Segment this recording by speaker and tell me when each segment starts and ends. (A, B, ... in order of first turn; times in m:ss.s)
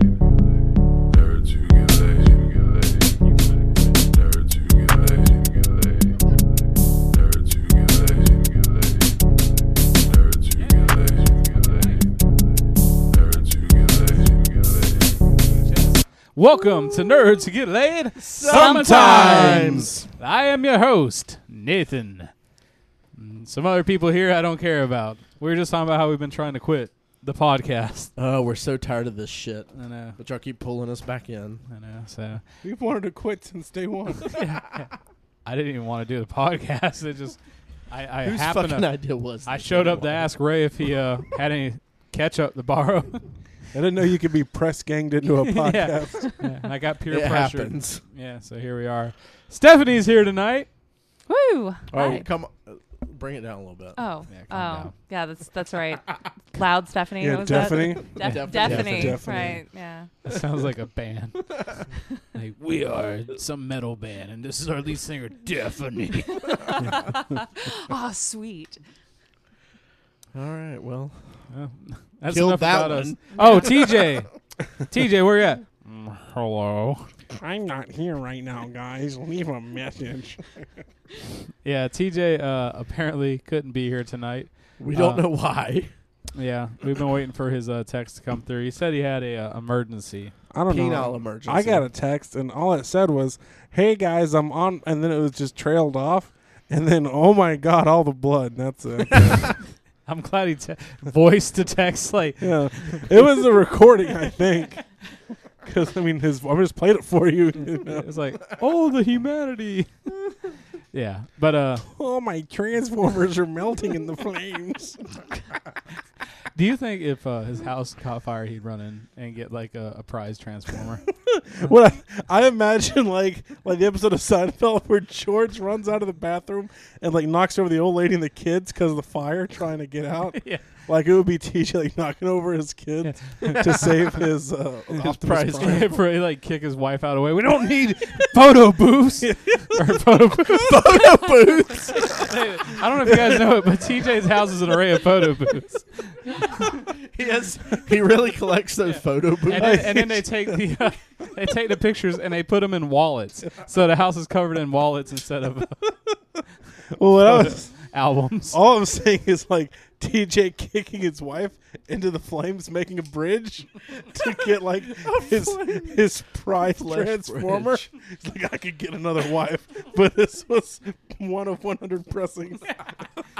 0:03.2-0:03.7 A
0:10.5-0:12.1 A
0:15.4-0:22.3 A
0:18.3-0:19.9 B
0:18.5-0:19.6 C
0:18.6-0:20.1 D
0:23.1-0:28.1 A
0:28.2-0:31.6 B
0:29.7-0:30.2 A
0:31.7-0:32.4 A
0:32.6-0:34.3 D
0:34.2-0:34.9 A
0:35.4-0:38.9 A
0:38.2-0:40.2 B
0:39.4-0:43.3 A
0:43.7-0:46.4 D
0:45.4-0:50.7 A
0:47.1-0:48.0 B
0:51.3-0:52.3 C
0:51.9-0:54.0 B
0:54.0-1:00.1 C
0:54.3-0:54.9 A
0:57.2-0:59.6 D
0:58.2-0:59.3 B
0:58.6-0:59.2 A
1:00.2-1:01.7 A
1:01.6-1:01.8 B
1:02.3-1:06.6 A
1:06.5-1:08.8 C
1:10.3-1:11.2 B
1:11.5-1:14.3 A
1:12.3-1:14.1 B
1:13.4-1:13.7 C
1:14.8-1:17.1 A
1:17.3-1:20.8 D
1:21.6-1:25.2 A
1:24.8-1:25.9 B
1:26.4-1:30.4 A
1:30.5-1:39.5 D
1:30.7-1:31.9 B
1:39.1-1:39.5 B
1:40.1-1:43.3 A
1:42.4-1:44.9 D
1:45.6-1:48.1 D
1:47.8-1:49.9 A
1:50.9-1:51.9 A
1:51.9-1:55.1 D
1:56.5-2:01.0 A
2:01.3-2:15.9 D
2:10.4-2:10.6 A
2:13.0-2:13.9 A
2:15.0-2:16.0 B
2:15.6-2:21.0 A
2:19.2-2:21.2 D
2:20.6-2:22.4 B
2:21.9-2:26.6 A
2:26.7-2:29.9 B
2:28.8-2:35.9 A
2:29.5-2:30.7 D
2:36.9-2:37.7 D
2:37.2-2:38.6 A
2:38.5-2:53.0 D
2:44.0-2:46.1 B
2:46.6-2:47.8 B